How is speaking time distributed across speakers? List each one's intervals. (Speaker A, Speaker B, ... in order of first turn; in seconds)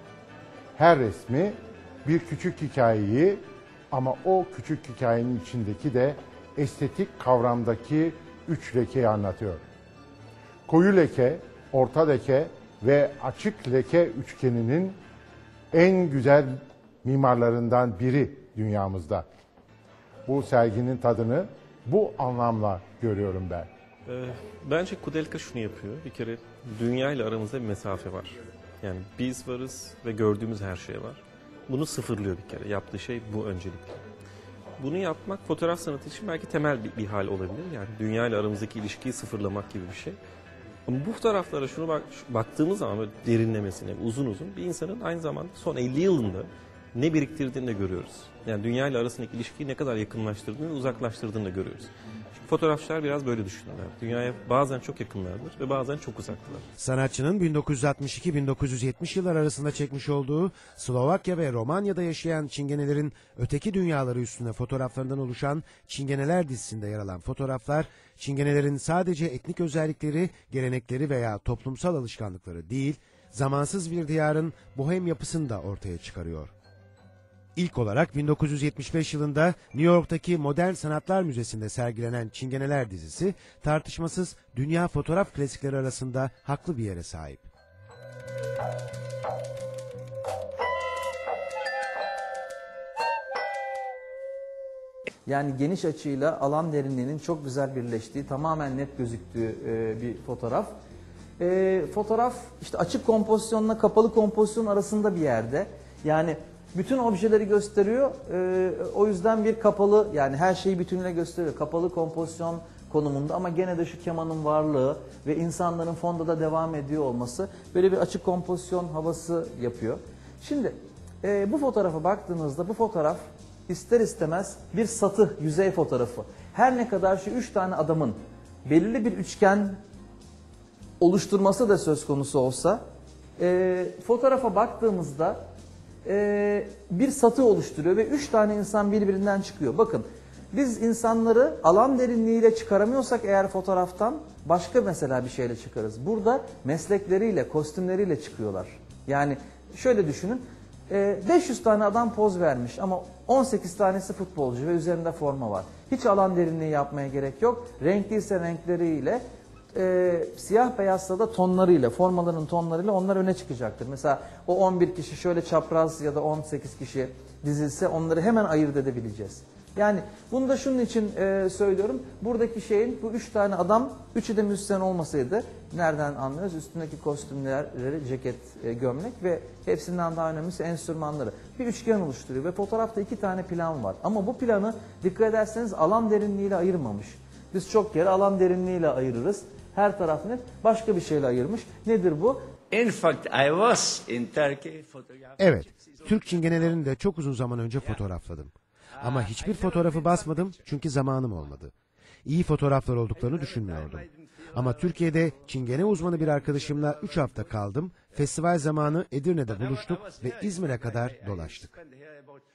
Speaker A: 0.8-9.6, 10.7-15.0, 15.7-19.2, 20.3-23.7
Speaker B: 24.1-34.0, 34.8-40.2, 40.9-51.9, 52.4-56.7
Speaker C: 56.8-76.5, 77.6-87.4, 195.4-201.7, 202.2-211.8
Speaker D: 95.3-100.7, 101.4-129.8, 131.0-132.8, 133.4-135.4, 136.1-159.2, 159.7-192.4
Speaker E: 192.7-195.4, 199.0-199.5, 203.3-204.0